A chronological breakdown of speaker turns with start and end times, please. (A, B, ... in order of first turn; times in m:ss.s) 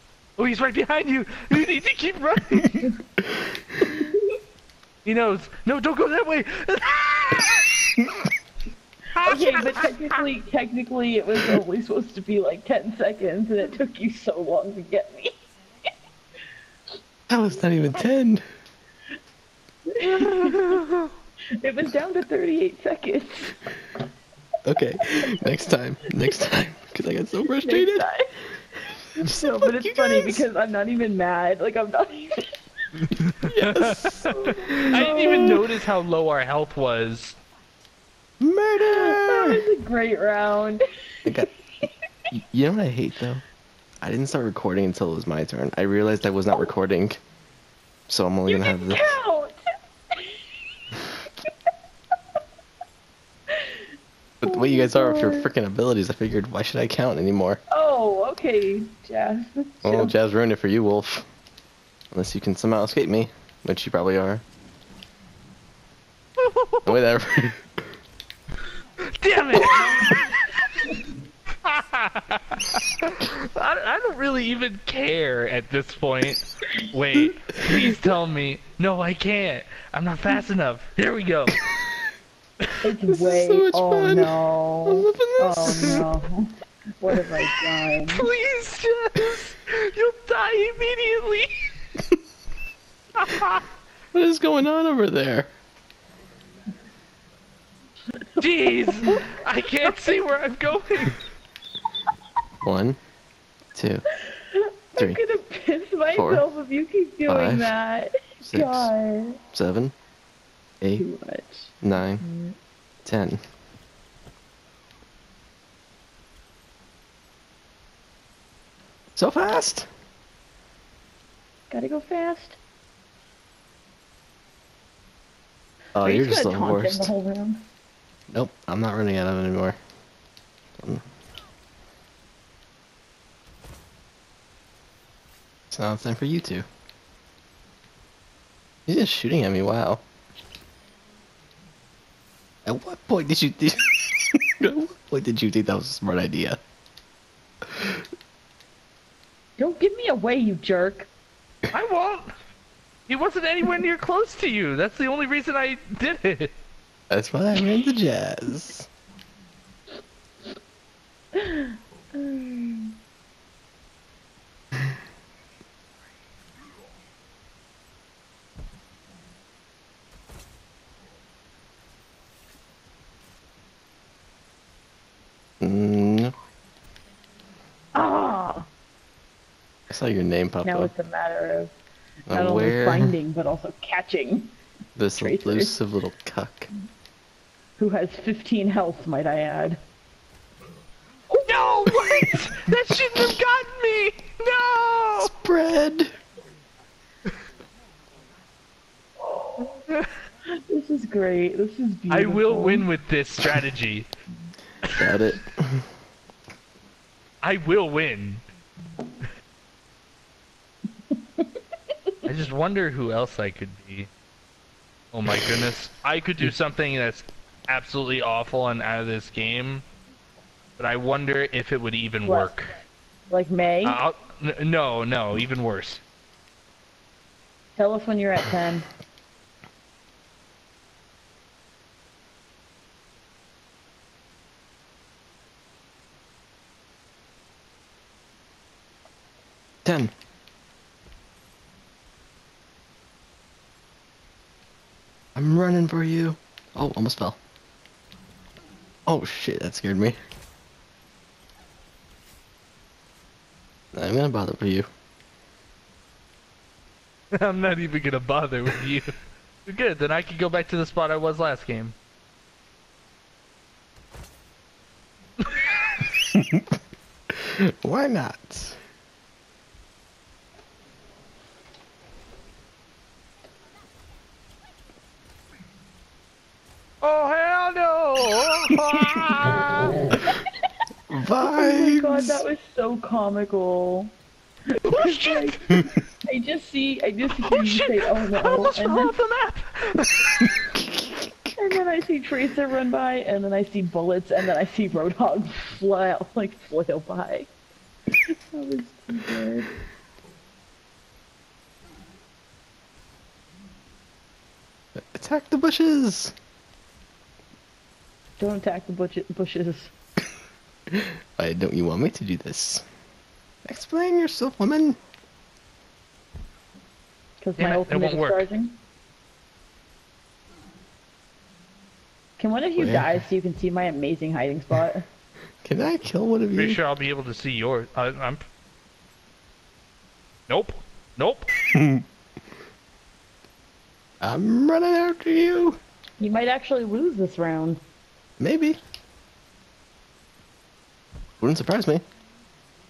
0:00.4-0:02.9 A
0:03.8-0:04.2 B
0:05.0-0:07.9 A
0:09.1-0:10.2 A
0:09.2-0:15.4 B
0:17.3-0:18.4 C
0:19.9-0:20.8 B
0:20.0-0:21.1 A
0:21.6-0:23.7 B
0:24.6-0:28.1 C
0:27.5-0:28.3 B
0:29.2-0:32.5 B
0:29.2-0:30.4 C
0:33.1-0:37.4 A
0:33.4-0:35.7 C
0:34.3-0:35.6 B
0:38.4-0:39.6 C
0:38.8-0:41.9 B
0:42.3-0:43.4 C
0:44.0-0:47.2 C
0:48.1-0:49.2 C
0:48.5-0:49.6 B
0:50.1-0:50.4 B
0:53.5-0:53.9 B
0:54.4-0:57.6 C
0:54.4-0:55.5 B
0:57.7-1:00.1 B
0:59.8-1:01.2 C
1:02.1-1:04.4 C
1:06.4-1:07.0 A
1:06.8-1:07.6 C
1:09.2-1:11.0 A
1:11.6-1:21.6 A
1:17.2-1:17.9 C
1:22.8-1:28.3 B
1:23.0-1:26.0 C
1:28.1-1:31.5 A
1:33.2-1:33.6 A
1:34.1-1:35.5 C
1:38.2-1:39.9 B
1:38.4-1:41.2 A
1:42.6-1:43.0 C
1:43.7-1:44.0 C
1:44.2-1:49.4 B
1:46.1-1:46.4 C
1:47.3-1:47.7 C
1:48.4-1:48.9 C
1:49.5-1:49.9 C
1:51.0-1:52.5 B
1:51.8-1:52.2 C
1:53.0-1:53.4 C
1:59.2-1:59.9 C
2:01.7-2:02.6 B
2:06.0-2:07.1 C
2:06.0-2:07.6 B
2:08.3-2:09.8 C
2:15.7-2:16.6 C
2:18.9-2:20.0 C
2:22.6-2:26.6 C
2:27.7-2:28.0 C
2:29.6-2:31.1 B
2:31.7-2:32.3 A
2:33.1-2:36.5 A
2:37.1-2:38.9 C
2:41.3-2:42.9 B
2:55.6-2:56.3 C
2:57.9-2:58.7 B
2:59.9-3:00.9 C
3:00.6-3:01.7 B
3:02.3-3:03.2 C
3:02.3-3:04.5 B
3:05.0-3:06.7 C
3:05.1-3:05.7 B
3:07.8-3:09.8 B
3:11.4-3:15.3 A
3:11.9-3:12.3 B
3:15.2-3:16.1 C
3:19.3-3:19.8 B
3:20.6-3:22.9 B
3:22.1-3:24.1 A
3:24.9-3:25.2 A
3:25.0-3:25.8 C
3:27.4-3:28.4 A
3:32.2-3:34.1 A
3:35.1-3:39.8 A
3:40.8-3:42.7 A
3:42.2-3:42.5 B
3:43.3-3:44.0 B
3:43.8-3:46.0 A
3:47.8-3:48.8 B
3:59.8-4:00.1 C
4:05.3-4:07.4 C
4:09.0-4:10.2 C
4:13.9-4:14.9 C
4:17.3-4:19.1 A
4:19.6-4:21.9 A
4:25.4-4:25.7 A
4:26.3-4:26.6 C
4:27.4-4:28.8 C
4:37.0-4:40.2 A
4:40.1-4:40.4 B
4:41.1-4:42.4 C
4:41.4-4:44.1 B
4:44.8-4:45.6 A
4:44.8-4:49.1 B
4:47.4-4:50.5 A
4:50.6-4:51.3 C
4:51.6-4:57.5 B
4:58.3-4:59.7 B
5:05.0-5:06.3 C
5:08.4-5:09.9 B
5:10.9-5:12.8 C
5:13.6-5:15.0 C
5:17.4-5:18.8 B
5:17.6-5:18.4 A
5:22.4-5:25.0 B
5:22.8-5:23.2 C
5:25.6-5:26.8 C
5:26.5-5:28.4 A
5:30.5-5:31.5 A
5:31.7-5:32.0 C
5:34.2-5:35.8 C
5:36.2-5:37.8 B
5:38.4-5:38.8 C
5:41.4-5:42.0 C